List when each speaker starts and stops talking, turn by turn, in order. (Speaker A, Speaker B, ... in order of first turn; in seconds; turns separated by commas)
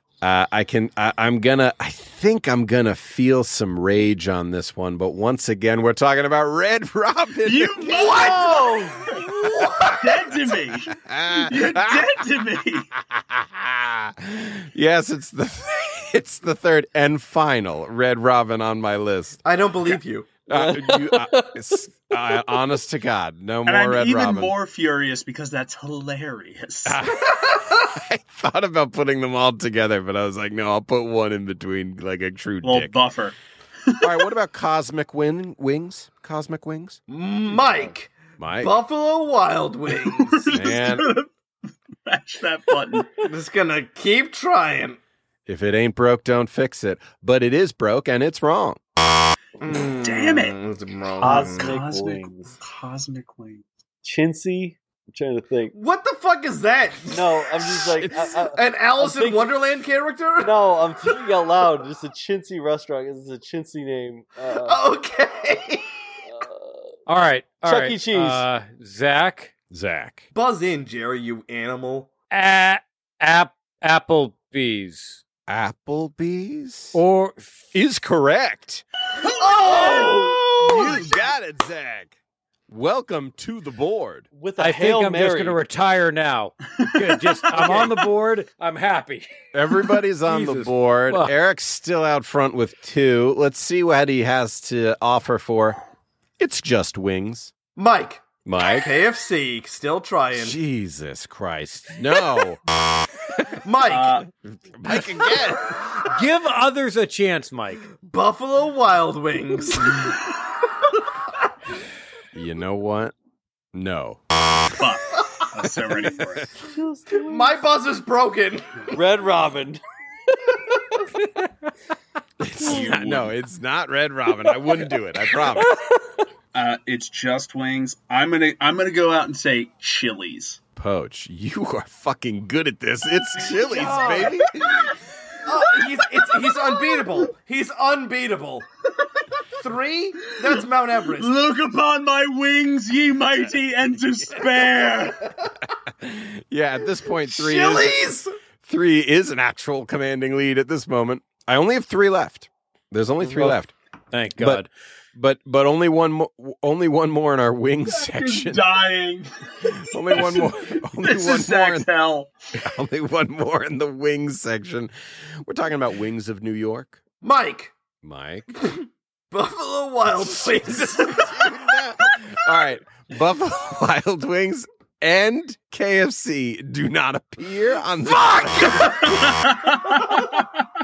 Speaker A: 0.2-8.4, Speaker B: 7.4-12.9, Speaker C: 7.8-9.3, Speaker D: 9.3-10.2, Speaker A: 10.9-12.2, Speaker A: 12.9-19.4, Speaker D: 19.4-20.3, Speaker A: 20.5-24.6, Speaker C: 20.5-22.6, Speaker B: 23.6-27.0, Speaker A: 26.9-32.9, Speaker B: 32.6-33.4, Speaker B: 33.9-34.2, Speaker A: 34.0-37.0, Speaker D: 37.1-40.7, Speaker C: 37.5-37.9, Speaker A: 38.4-38.7, Speaker B: 39.9-41.3, Speaker A: 40.5-41.1, Speaker B: 42.0-43.2, Speaker D: 43.2-45.0, Speaker A: 45.5-48.8, Speaker D: 49.6-51.7, Speaker B: 50.0-50.6, Speaker C: 51.2-52.6, Speaker B: 51.2-53.6, Speaker C: 54.0-55.7, Speaker D: 55.7-60.6, Speaker C: 57.1-59.5, Speaker C: 60.4-64.8, Speaker D: 64.5-66.0, Speaker C: 66.3-66.8, Speaker E: 67.1-69.5, Speaker C: 67.6-68.5, Speaker A: 69.7-70.3, Speaker D: 70.3-72.1, Speaker E: 72.3-75.2, Speaker A: 75.5-77.0, Speaker E: 76.9-77.7, Speaker A: 77.7-78.8, Speaker B: 79.2-80.3, Speaker D: 79.2-81.1, Speaker C: 79.6-80.6, Speaker A: 80.6-82.2, Speaker A: 82.7-84.3, Speaker C: 84.3-85.6, Speaker E: 84.6-89.3, Speaker C: 87.5-88.0, Speaker A: 89.5-95.8, Speaker E: 90.2-91.3, Speaker A: 96.4-97.5, Speaker D: 97.8-100.6, Speaker A: 98.4-98.9, Speaker A: 100.3-102.6, Speaker D: 103.6-104.2, Speaker B: 103.9-104.2, Speaker A: 104.7-106.1, Speaker E: 106.1-107.9, Speaker D: 108.0-110.2, Speaker A: 112.3-113.1, Speaker A: 113.7-114.2, Speaker B: 114.7-116.5, Speaker C: 116.6-117.6, Speaker D: 117.2-118.8, Speaker C: 118.9-119.8, Speaker A: 122.4-125.7, Speaker B: 122.6-123.3, Speaker B: 126.5-130.6, Speaker A: 130.8-134.9, Speaker B: 133.5-134.9, Speaker D: 133.7-134.4, Speaker C: 133.8-134.2, Speaker D: 135.4-138.7, Speaker D: 139.6-141.3, Speaker B: 140.4-145.3, Speaker A: 146.0-148.0, Speaker D: 147.3-148.3, Speaker A: 148.6-153.7, Speaker E: 154.1-154.7, Speaker A: 154.4-158.6, Speaker B: 157.9-162.3, Speaker A: 159.7-161.9, Speaker A: 162.5-164.9, Speaker A: 165.4-167.0, Speaker D: 167.2-167.7, Speaker A: 168.0-168.5, Speaker D: 168.6-171.7, Speaker A: 170.9-179.2, Speaker D: 178.1-179.2, Speaker B: 179.1-180.4